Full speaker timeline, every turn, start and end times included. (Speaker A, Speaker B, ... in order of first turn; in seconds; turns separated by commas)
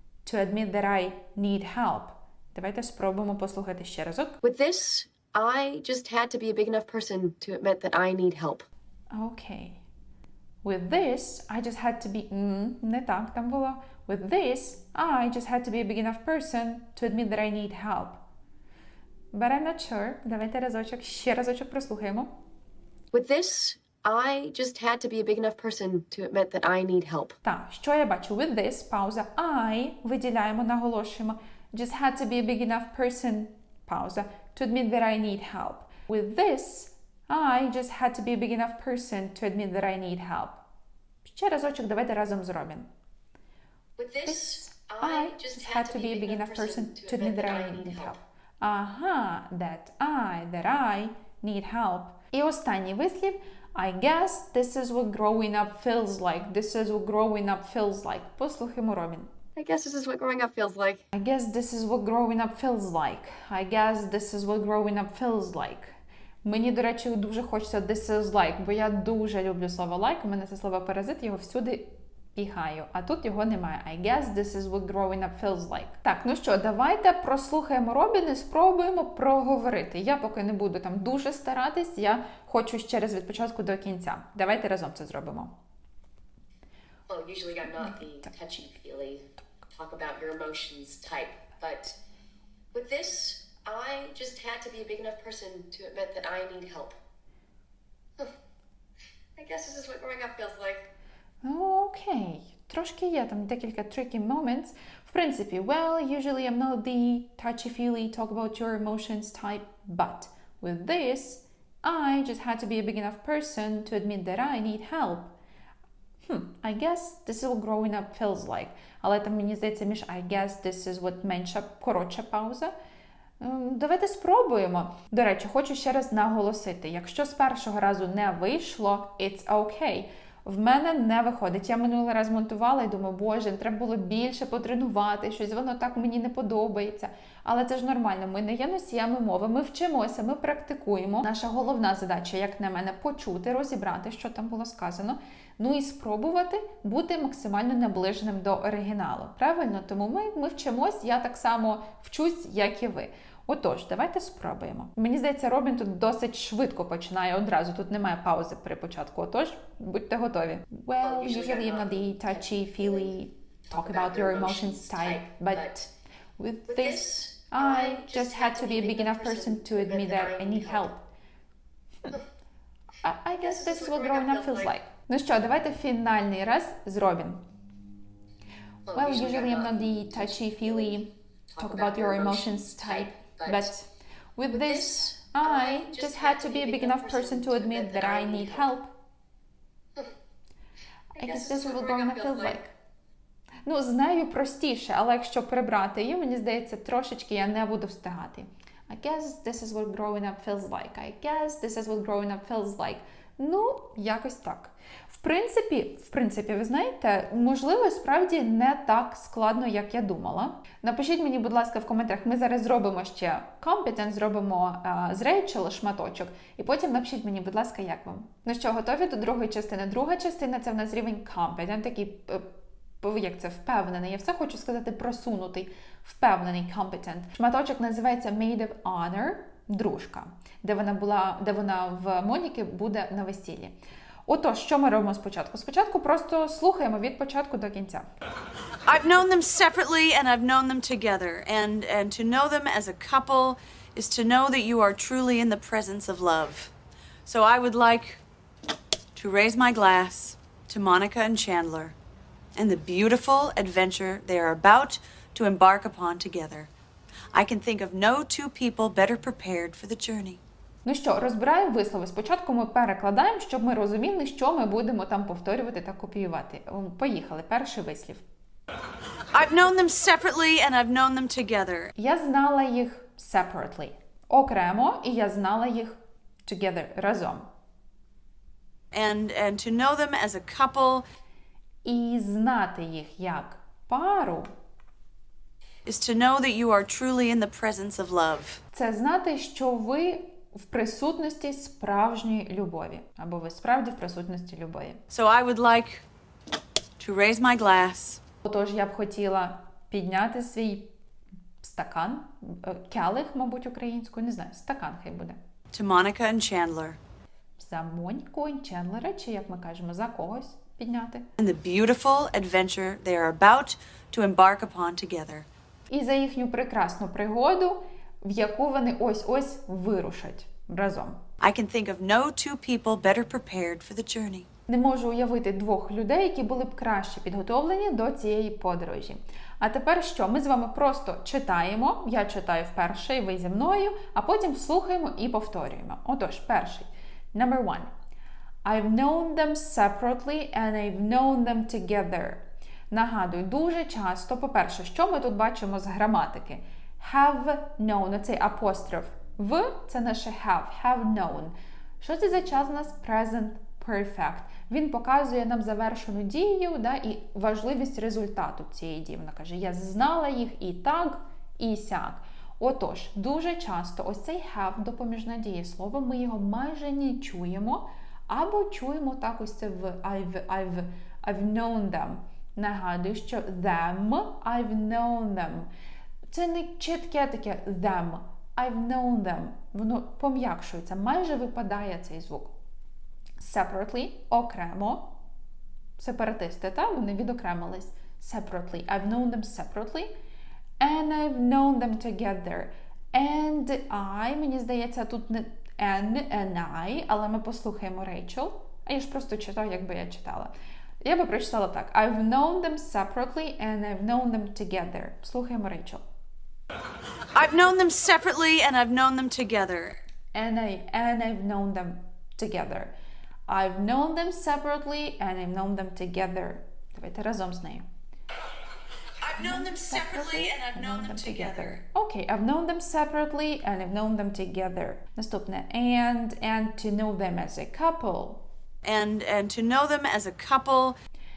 Speaker A: 0.2-4.4, Speaker B: 4.4-8.7, Speaker A: 9.1-9.8, Speaker A: 10.6-18.2, Speaker A: 19.3-22.3, Speaker B: 23.1-27.4, Speaker A: 27.4-40.6, Speaker A: 41.2-42.9, Speaker B: 44.0-48.2, Speaker A: 44.2-59.3, Speaker B: 59.5-61.0, Speaker A: 61.1-85.5, Speaker B: 87.1-92.0, Speaker B: 92.7-96.9, Speaker B: 99.3-100.9, Speaker A: 101.4-115.3, Speaker A: 116.2-122.7, Speaker A: 123.4-171.1, Speaker B: 161.0-165.8, Speaker B: 166.7-170.9, Speaker A: 173.0-177.4, Speaker B: 173.4-174.8, Speaker B: 178.8-183.7, Speaker A: 178.9-188.9, Speaker B: 184.5-188.7, Speaker A: 191.1-192.7, Speaker B: 191.2-192.7, Speaker A: 193.7-222.4, Speaker A: 223.0-233.8, Speaker A: 234.3-238.1, Speaker C: 238.8-246.7, Speaker C: 247.2-248.2, Speaker C: 249.2-251.9, Speaker C: 252.5-256.7, Speaker C: 257.3-260.4, Speaker A: 260.8-268.2, Speaker C: 269.3-271.9, Speaker A: 272.0-277.5, Speaker C: 278.9-281.1, Speaker A: 281.8-284.5, Speaker C: 285.9-288.6, Speaker A: 288.7-295.0, Speaker C: 295.1-296.0, Speaker C: 297.0-298.2, Speaker A: 298.4-300.9, Speaker A: 301.6-305.4, Speaker C: 305.7-307.0, Speaker A: 307.6-311.2, Speaker C: 311.4-315.5, Speaker A: 315.9-321.2, Speaker C: 321.4-324.5, Speaker A: 324.7-337.9, Speaker A: 338.6-375.7, Speaker A: 376.3-382.5, Speaker A: 383.4-385.1, Speaker A: 386.0-390.1, Speaker A: 390.8-406.0, Speaker C: 407.3-410.0, Speaker A: 410.3-412.9, Speaker A: 413.5-417.9, Speaker C: 419.2-421.8, Speaker A: 419.4-428.4, Speaker C: 428.8-431.0